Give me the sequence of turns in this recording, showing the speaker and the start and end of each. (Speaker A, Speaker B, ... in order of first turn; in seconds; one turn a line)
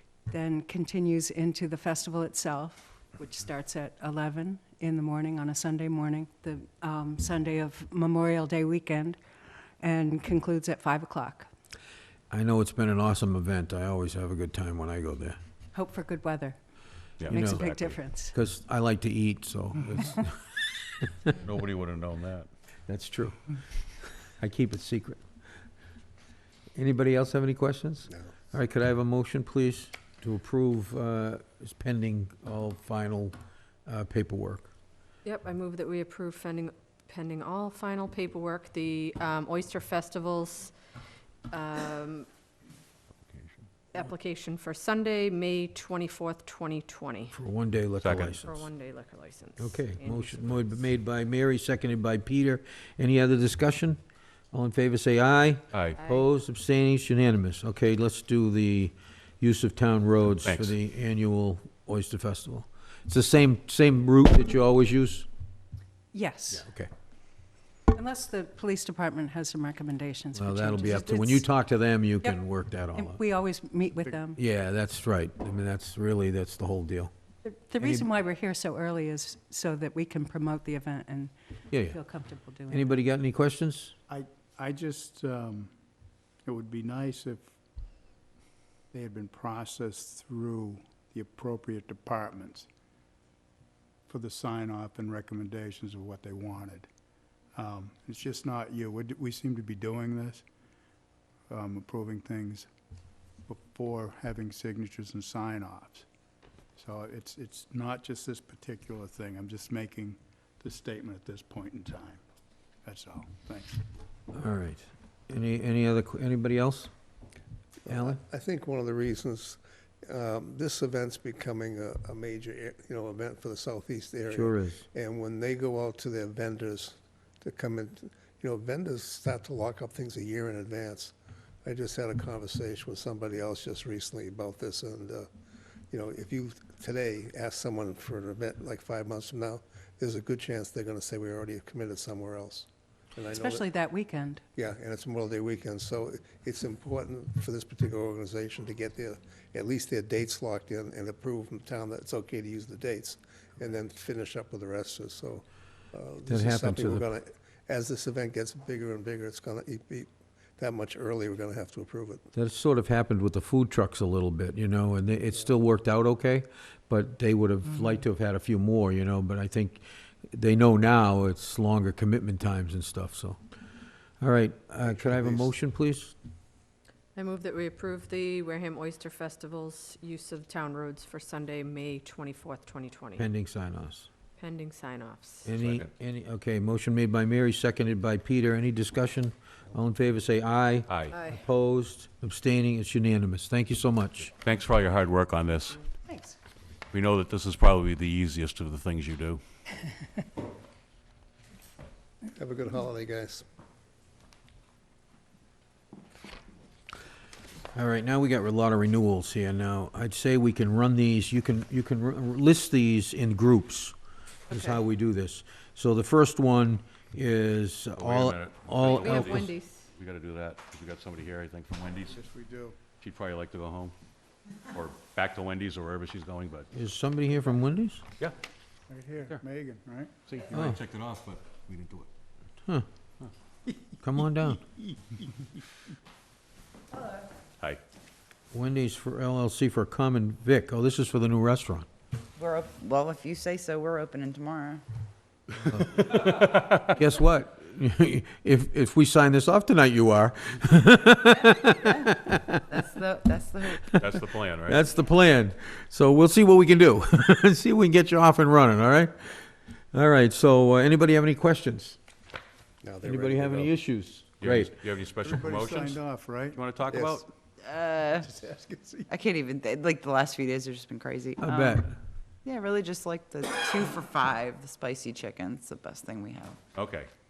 Speaker A: 0.3-9.2
Speaker A: 9.8-11.5
Speaker B: 12.3-15.4
Speaker A: 15.7-16.6
Speaker C: 17.2-18.0
Speaker A: 17.2-18.4
Speaker B: 17.3-17.7
Speaker B: 18.3-21.3
Speaker C: 21.4-22.5
Speaker B: 22.9-25.2
Speaker B: 26.8-34.7
Speaker D: 35.2-40.7
Speaker D: 41.5-42.3
Speaker C: 43.3-43.6
Speaker D: 43.9-47.3
Speaker B: 47.3-48.7
Speaker C: 48.0-48.4
Speaker D: 48.4-50.7
Speaker B: 49.6-54.0
Speaker B: 54.5-65.3
Speaker C: 55.7-56.0
Speaker C: 60.4-60.8
Speaker A: 66.1-66.7
Speaker B: 66.5-66.9
Speaker A: 67.9-71.5
Speaker B: 70.3-73.2
Speaker A: 72.9-74.4
Speaker B: 74.3-77.1
Speaker A: 77.4-82.9
Speaker B: 77.8-78.1
Speaker B: 81.7-82.0
Speaker B: 82.7-83.9
Speaker E: 84.1-85.7
Speaker E: 86.5-87.5
Speaker E: 88.9-92.7
Speaker E: 94.1-96.9
Speaker E: 97.5-100.5
Speaker E: 101.5-102.7
Speaker E: 103.5-106.1
Speaker E: 106.8-112.2
Speaker E: 112.8-113.8
Speaker B: 114.3-116.9
Speaker F: 117.8-135.3
Speaker B: 117.9-118.2
Speaker B: 124.3-124.9
Speaker F: 135.9-143.6
Speaker A: 143.3-144.4
Speaker F: 144.6-162.3
Speaker B: 156.3-157.1
Speaker B: 162.3-173.4
Speaker B: 174.2-176.2
Speaker F: 174.8-175.5
Speaker D: 177.2-183.2
Speaker B: 183.2-184.1
Speaker D: 184.4-185.5
Speaker B: 185.4-194.3
Speaker C: 185.6-185.9
Speaker C: 190.9-191.2
Speaker D: 191.1-191.4
Speaker C: 194.3-195.8
Speaker A: 196.1-196.4
Speaker C: 196.9-199.4
Speaker F: 202.3-203.4
Speaker B: 207.7-213.9
Speaker B: 214.5-219.5
Speaker D: 214.5-214.8
Speaker C: 218.0-222.2
Speaker D: 218.8-219.9
Speaker E: 222.1-222.8
Speaker C: 223.0-223.9
Speaker C: 224.7-226.7
Speaker B: 226.7-228.0
Speaker E: 228.9-230.3
Speaker C: 230.3-232.1
Speaker B: 230.5-230.8
Speaker B: 234.0-234.6
Speaker B: 238.5-241.9
Speaker G: 242.4-244.8
Speaker B: 245.7-252.8
Speaker C: 246.0-246.8
Speaker G: 252.7-253.8
Speaker B: 253.8-262.0
Speaker C: 253.9-254.9
Speaker F: 262.8-263.7
Speaker B: 263.0-264.8
Speaker C: 264.4-267.3
Speaker E: 265.2-266.7
Speaker F: 266.9-267.2
Speaker G: 267.6-268.3
Speaker E: 268.1-269.1
Speaker G: 269.1-271.9
Speaker B: 271.4-271.9
Speaker G: 272.4-276.6
Speaker C: 276.8-277.1